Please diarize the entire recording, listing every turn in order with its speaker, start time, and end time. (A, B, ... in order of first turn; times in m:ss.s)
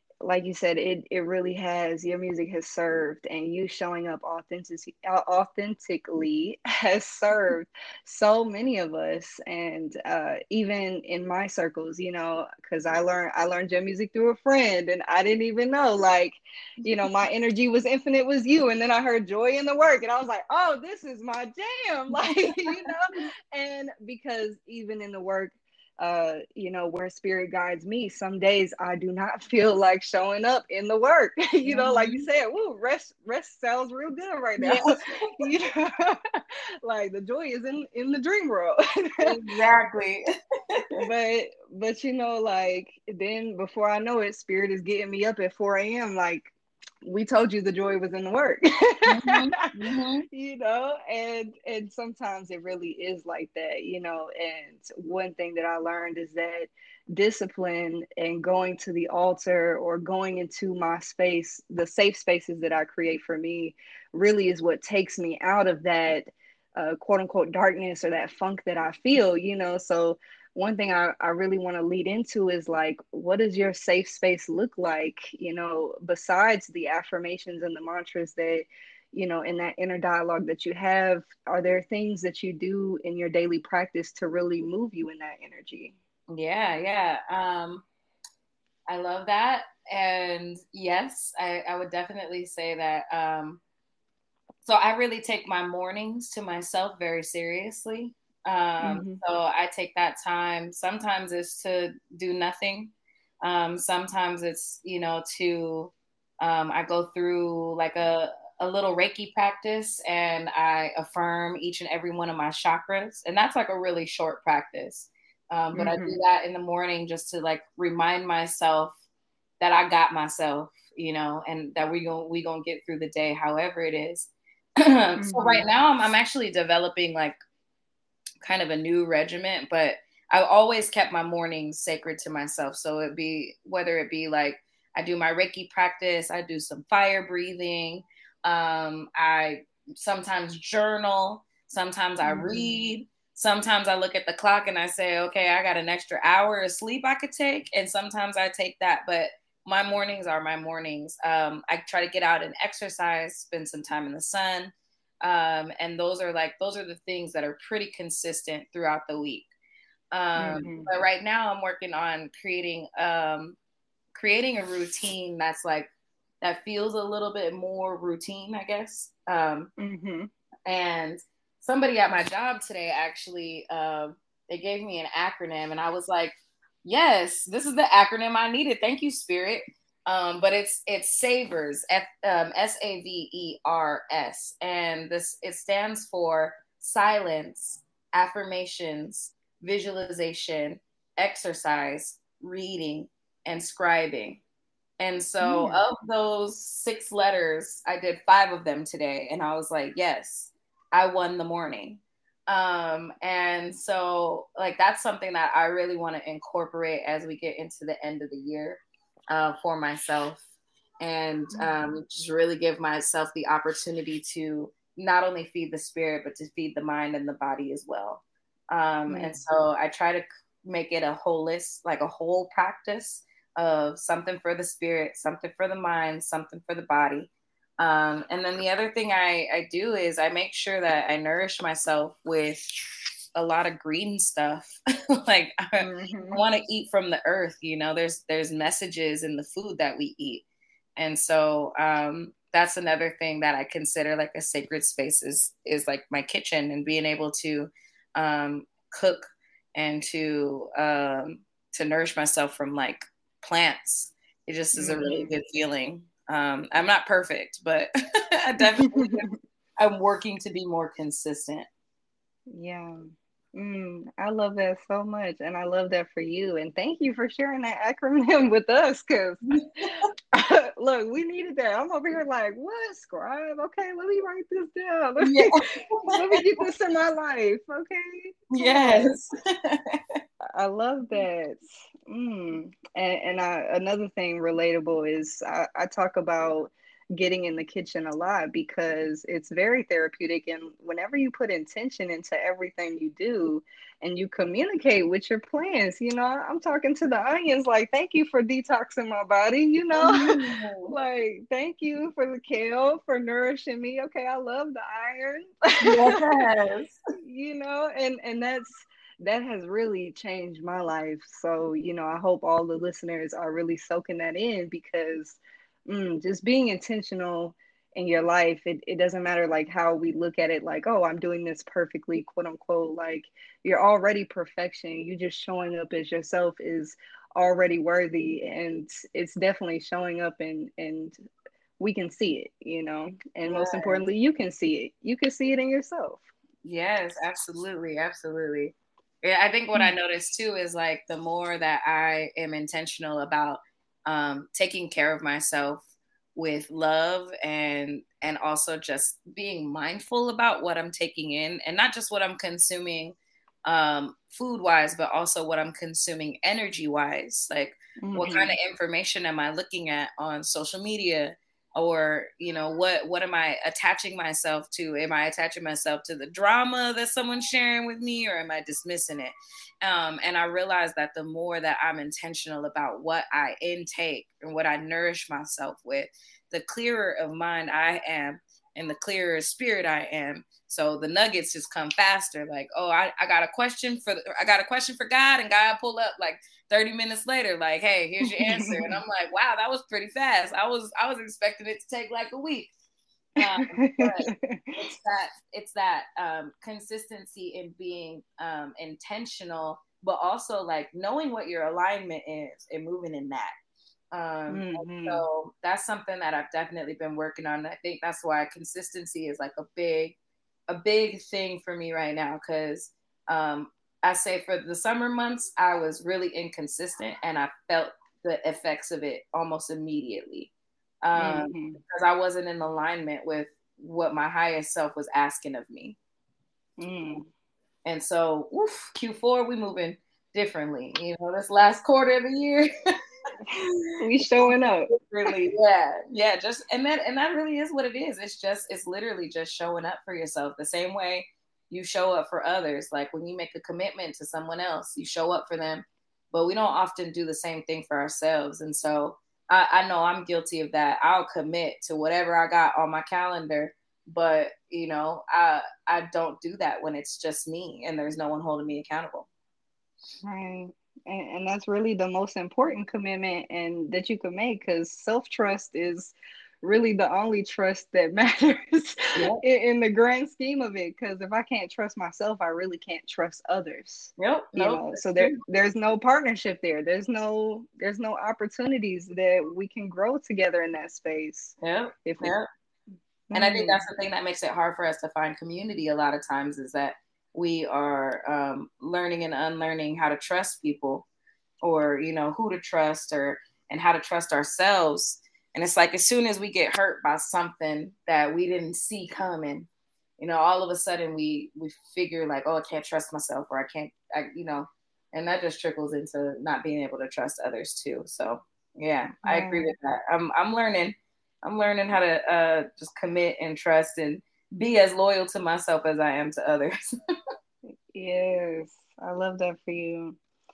0:00.2-0:34.8 A
0:31.6-0:32.3 B
0:34.6-0:34.9 B
0:35.4-0:36.2 A
0:36.8-0:39.4 A
0:39.2-0:40.2 B
0:41.0-0:46.5 A
0:47.0-0:49.6 A
0:49.1-0:50.3 B
0:50.3-1:26.0 A
1:26.3-1:27.8 B
1:28.9-1:33.6 B
1:34.6-1:59.0 B
1:38.8-1:39.2 A
1:55.7-1:56.2 A
1:59.6-2:07.4 B
2:05.2-2:05.7 A
2:08.4-2:39.5 B
2:22.2-2:22.8 A
2:40.1-2:43.6 B
2:40.4-2:40.9 A
2:44.1-2:45.9 B
2:46.4-2:49.7 B
2:49.8-2:50.3 A
2:50.7-3:14.4 B
3:15.0-3:30.4 B
3:15.4-3:15.8 A
3:31.0-3:52.7 B
3:31.5-3:31.8 A
3:39.1-3:39.4 A
3:53.4-4:00.4 B
3:55.8-3:56.4 A
4:01.0-4:21.7 B
4:14.7-4:15.3 A
4:18.6-4:19.4 A
4:22.5-4:23.0 A
4:23.6-4:39.2 A
4:35.2-4:36.4 B
4:38.5-4:40.0 B
4:40.6-5:06.2 A
5:00.0-5:00.9 B
5:05.8-5:07.0 B
5:07.2-5:31.2 A
5:31.8-5:36.3 A
5:33.5-5:34.1 B
5:36.6-5:45.8 B
5:46.4-6:32.7 B
5:58.0-5:58.6 A
6:28.2-6:29.0 A
6:33.4-6:43.5 B
6:33.4-6:34.8 A
6:44.1-6:50.2 B
6:44.5-6:45.3 A
6:50.7-7:00.5 B
7:01.0-7:06.0 B
7:01.2-7:01.8 A
7:06.8-7:07.3 A
7:07.8-7:12.7 B
7:13.5-7:15.3 A
7:13.6-7:39.3 B
7:40.2-8:02.3 A
7:49.2-7:49.4 B
7:54.2-7:55.4 B
8:01.6-8:02.5 B
8:03.3-8:03.8 A
8:03.3-8:11.1 B
8:11.6-8:19.7 B
8:20.2-8:36.8 B
8:29.2-8:29.8 A
8:37.9-8:40.2 A